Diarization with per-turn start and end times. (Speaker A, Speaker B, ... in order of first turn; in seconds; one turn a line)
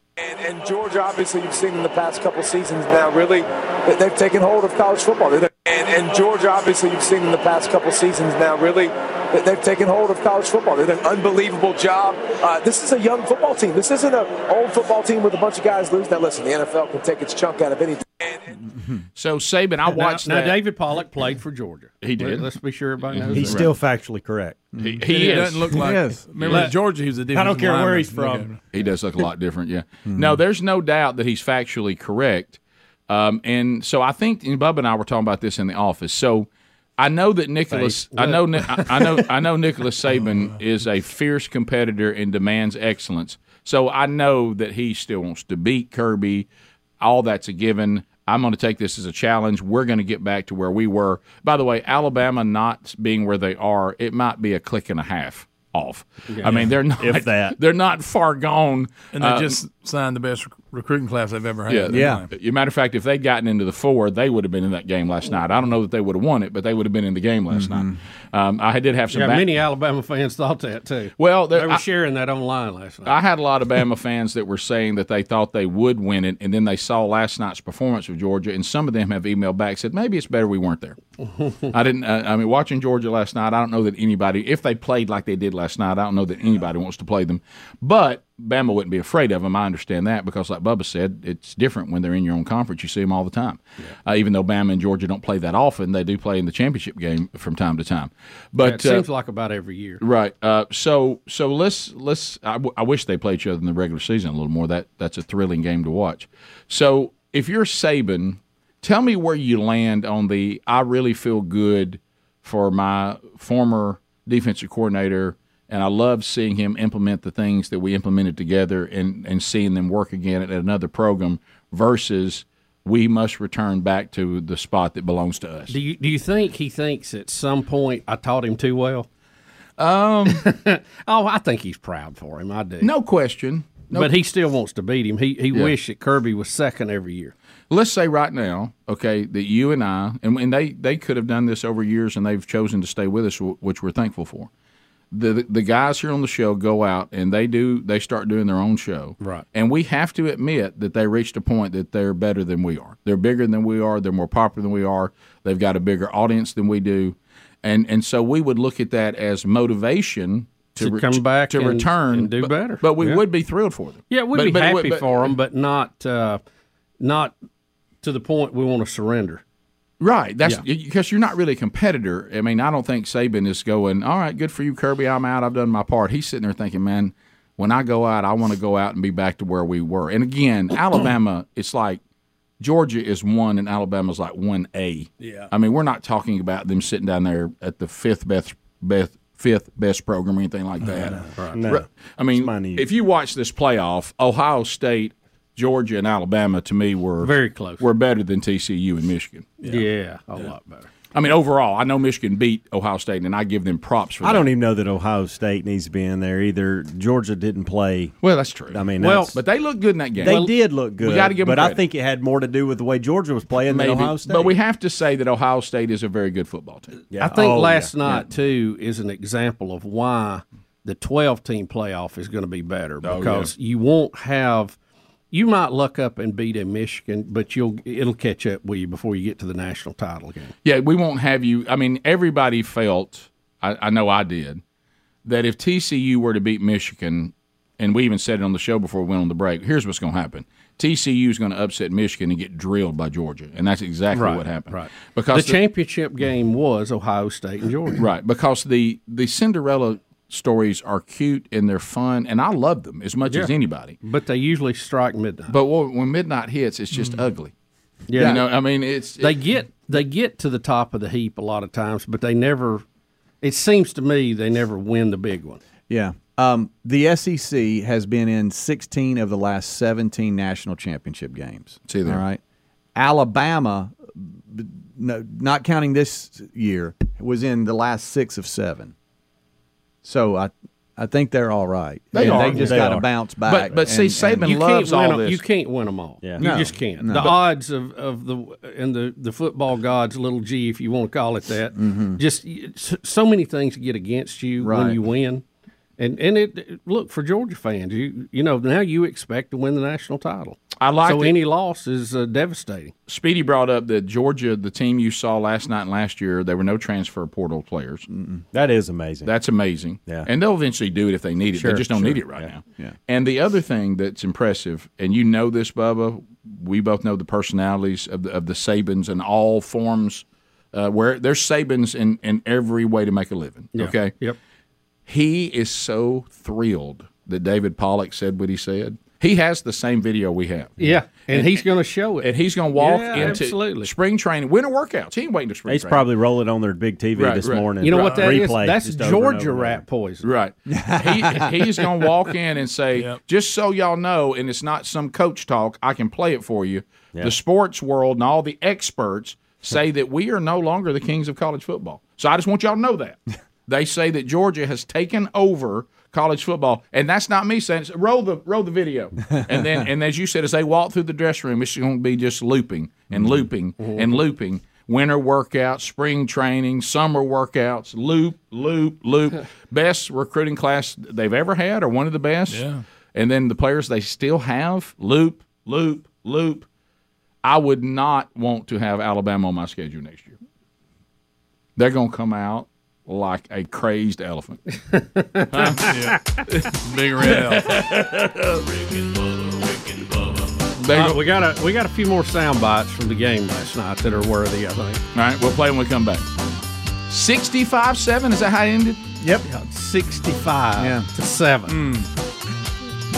Speaker A: 0.2-18.5
Speaker B: 18.6-19.0
Speaker C: 19.1-20.6
Speaker D: 19.9-23.6
Speaker C: 22.0-22.5
Speaker C: 23.1-23.7
Speaker E: 23.3-24.7
Speaker B: 24.7-25.0
Speaker C: 24.8-25.8
Speaker F: 25.0-28.6
Speaker D: 25.1-25.4
Speaker B: 25.7-26.3
Speaker D: 26.4-26.7
Speaker E: 27.3-28.5
Speaker C: 28.7-46.5
Speaker B: 30.1-30.4
Speaker D: 37.7-39.2
Speaker C: 47.0-59.6
Speaker D: 56.3-56.6
Speaker E: 57.0-57.5
Speaker F: 59.1-62.3
Speaker C: 61.7-69.5
Speaker B: 61.9-62.2
Speaker B: 67.5-68.0
Speaker D: 69.1-73.2
Speaker C: 71.2-71.8
Speaker C: 73.0-81.0
Speaker C: 81.7-99.0
Speaker D: 98.6-100.0
Speaker C: 100.0-125.7
Speaker D: 125.7-129.1
Speaker C: 129.8-130.4
Speaker D: 130.3-132.9
Speaker C: 132.8-134.1
Speaker D: 133.9-137.3
Speaker C: 137.7-144.5
Speaker C: 145.1-165.3
Speaker D: 160.8-163.2
Speaker D: 164.1-166.4
Speaker D: 167.0-167.3
Speaker D: 168.0-169.4
Speaker C: 170.0-182.0
Speaker C: 182.6-199.6
Speaker D: 191.3-191.6
Speaker E: 191.5-192.9
Speaker D: 197.2-197.8
Speaker D: 199.6-200.9
Speaker C: 201.1-204.5
Speaker E: 204.2-208.1
Speaker C: 208.2-211.8
Speaker E: 208.7-209.4
Speaker D: 209.0-209.3
Speaker E: 210.2-214.5
Speaker D: 210.2-210.5
Speaker C: 213.7-216.9
Speaker E: 217.1-217.9
Speaker D: 217.2-224.8
Speaker C: 223.0-223.5
Speaker D: 225.3-230.5
Speaker C: 230.6-234.6
Speaker C: 235.2-245.6
Speaker D: 244.1-248.0
Speaker C: 248.0-253.9
Speaker D: 253.3-255.5
Speaker C: 255.5-257.5
Speaker D: 258.1-258.5
Speaker C: 258.1-259.4
Speaker B: 258.1-258.4
Speaker D: 259.2-262.8
Speaker D: 263.4-265.6
Speaker B: 265.9-272.4
Speaker C: 271.9-272.2
Speaker B: 272.9-278.9
Speaker B: 280.0-284.5
Speaker C: 282.1-282.9
Speaker E: 282.2-283.1
Speaker C: 283.4-285.4
Speaker D: 284.4-295.4
Speaker E: 286.2-286.6
Speaker B: 286.4-287.3
Speaker B: 291.8-292.2
Speaker B: 294.6-295.0
Speaker D: 296.0-302.9
Speaker C: 300.8-301.4
Speaker C: 303.1-308.0
Speaker B: 308.1-308.4
Speaker E: 308.5-309.3
Speaker C: 309.2-324.1
Speaker E: 311.6-312.5
Speaker D: 323.8-324.4
Speaker C: 325.1-331.6
Speaker D: 330.8-333.9
Speaker C: 332.2-336.1
Speaker E: 335.7-339.8
Speaker C: 337.1-338.3
Speaker D: 337.8-340.3
Speaker C: 340.2-376.6
Speaker B: 340.7-341.6
Speaker B: 359.5-359.8
Speaker B: 363.1-363.5
Speaker D: 363.8-364.2
Speaker F: 372.5-372.8
Speaker C: 377.4-380.4
Speaker C: 381.8-384.6
Speaker D: 384.9-386.4
Speaker C: 385.5-385.9
Speaker F: 385.7-387.9
Speaker C: 387.2-388.3
Speaker G: 388.6-390.7
Speaker C: 390.8-391.2
Speaker D: 390.9-395.0
Speaker C: 395.1-396.2
Speaker C: 397.1-399.1
Speaker D: 399.4-401.8
Speaker B: 400.8-401.1
Speaker F: 401.8-402.1